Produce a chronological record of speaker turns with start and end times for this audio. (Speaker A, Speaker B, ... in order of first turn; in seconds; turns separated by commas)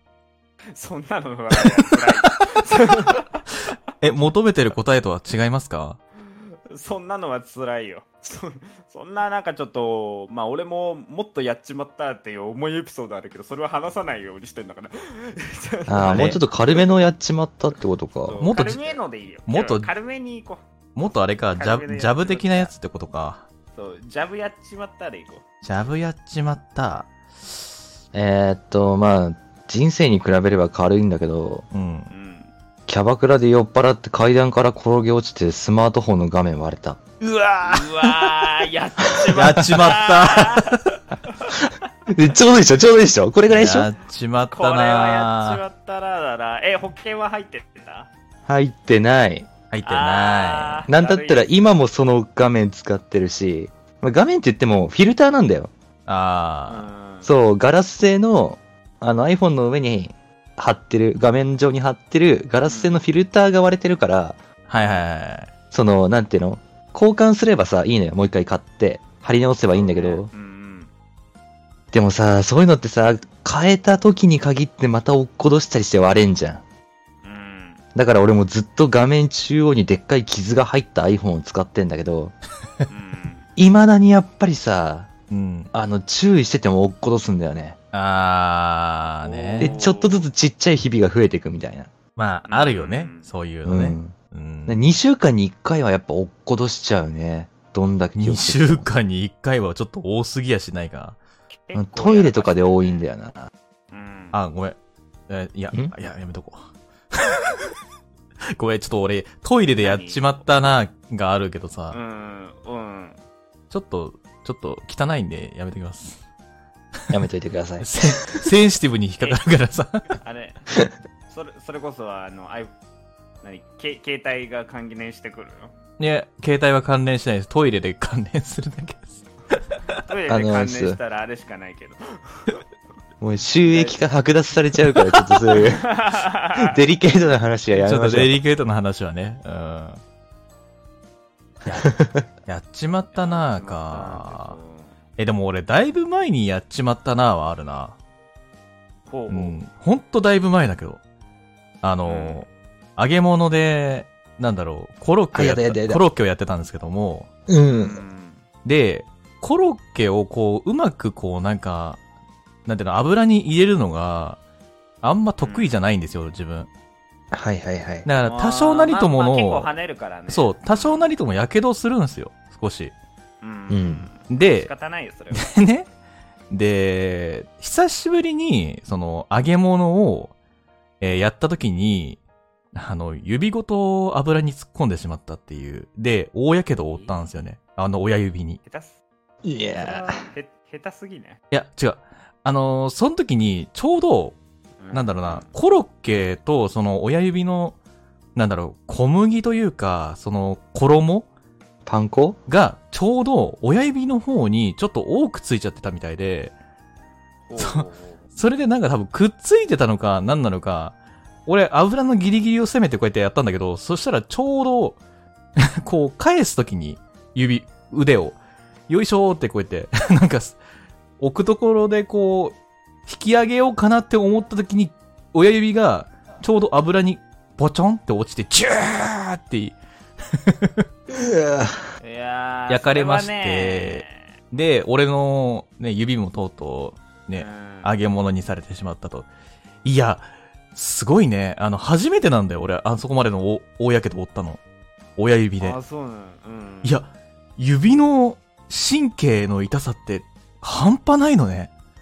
Speaker A: 0.7-3.7, Speaker B: 4.0-6.0, Speaker A: 6.7-17.1, Speaker C: 15.9-18.4, Speaker B: 16.1-16.4, Speaker A: 18.2-20.6, Speaker B: 18.4-19.9, Speaker B: 20.9-23.4, Speaker A: 21.5-22.7, Speaker A: 23.7-25.4, Speaker B: 25.6-27.1, Speaker C: 28.1-31.6, Speaker B: 31.7-32.1, Speaker A: 32.1-32.5, Speaker C: 32.9-37.0, Speaker B: 37.2-38.3, Speaker A: 37.6-41.6, Speaker B: 39.3-40.8, Speaker C: 42.1-43.9, Speaker B: 43.5-45.6, Speaker A: 44.5-48.1, Speaker C: 48.5-49.5, Speaker B: 49.7-50.9, Speaker A: 49.8-51.5, Speaker C: 50.9-55.7, Speaker B: 56.1-56.9, Speaker A: 56.7-57.3, Speaker C: 57.2-64.4, Speaker A: 62.6-63.0, Speaker B: 64.7-65.5, Speaker A: 64.7-65.0, Speaker C: 65.7-70.3, Speaker A: 69.7-70.9, Speaker C: 71.9-76.6, Speaker A: 77.2-77.8, Speaker C: 77.9-82.3, Speaker A: 82.9-83.5, Speaker C: 83.6-85.1, Speaker B: 85.3-85.7, Speaker C: 85.7-87.8, Speaker B: 87.9-89.7, Speaker A: 89.2-90.3, Speaker C: 89.6-91.9, Speaker B: 92.2-94.8, Speaker A: 92.5-93.3, Speaker C: 93.7-94.1, Speaker C: 94.7-98.9, Speaker B: 98.2-101.2, Speaker A: 101.5-103.0, Speaker C: 101.7-103.5, Speaker A: 103.9-104.3, Speaker B: 104.3-104.8, Speaker B: 105.3-107.7, Speaker B: 108.5-112.0, Speaker A: 109.8-110.8, Speaker A: 111.9-113.2, Speaker B: 113.7-116.2, Speaker C: 117.1-117.9, Speaker B: 117.8-120.1, Speaker A: 120.2-120.7, Speaker A: 121.3-122.7, Speaker A: 123.4-125.7, Speaker B: 126.0-129.6, Speaker A: 130.0-132.6, Speaker C: 130.3-131.0, Speaker C: 133.2-135.9, Speaker A: 133.6-134.0, Speaker A: 135.5-136.7, Speaker C: 136.5-138.4, Speaker B: 137.7-140.0, Speaker C: 141.7-142.2, Speaker B: 142.4-144.6, Speaker A: 143.1-144.9, Speaker B: 145.2-147.9, Speaker A: 149.1-149.6, Speaker B: 149.3-151.0, Speaker B: 151.8-157.3, Speaker A: 152.0-152.4, Speaker C: 155.3-156.0, Speaker C: 157.5-158.0, Speaker A: 157.7-158.4, Speaker B: 158.6-162.0, Speaker B: 162.7-164.4, Speaker B: 165.0-166.7, Speaker A: 165.4-165.8, Speaker C: 167.3-168.1, Speaker B: 168.0-169.7, Speaker A: 168.2-171.1, Speaker B: 170.3-172.9, Speaker A: 173.4-175.5, Speaker C: 173.7-174.1, Speaker B: 174.3-174.7, Speaker B: 175.3-175.9, Speaker B: 176.5-180.3, Speaker B: 181.0-182.2, Speaker B: 182.7-188.6, Speaker A: 186.9-187.3, Speaker A: 188.6-189.0, Speaker C: 189.4-190.2, Speaker A: 189.8-191.4, Speaker B: 191.5-194.4, Speaker A: 194.8-195.5, Speaker B: 194.9-197.8, Speaker B: 198.3-201.3, Speaker C: 201.8-202.4, Speaker B: 202.5-206.5, Speaker A: 207.5-208.2, Speaker B: 207.6-207.8, Speaker B: 208.3-210.9, Speaker B: 211.5-215.0, Speaker B: 215.6-218.4, Speaker B: 218.9-220.6, Speaker B: 221.2-229.8, Speaker B: 230.3-230.8, Speaker C: 231.1-231.8, Speaker A: 232.0-234.3, Speaker B: 232.7-239.3, Speaker A: 237.3-237.9, Speaker B: 239.8-244.6, Speaker B: 245.2-245.8, Speaker A: 245.6-247.0, Speaker B: 246.8-251.7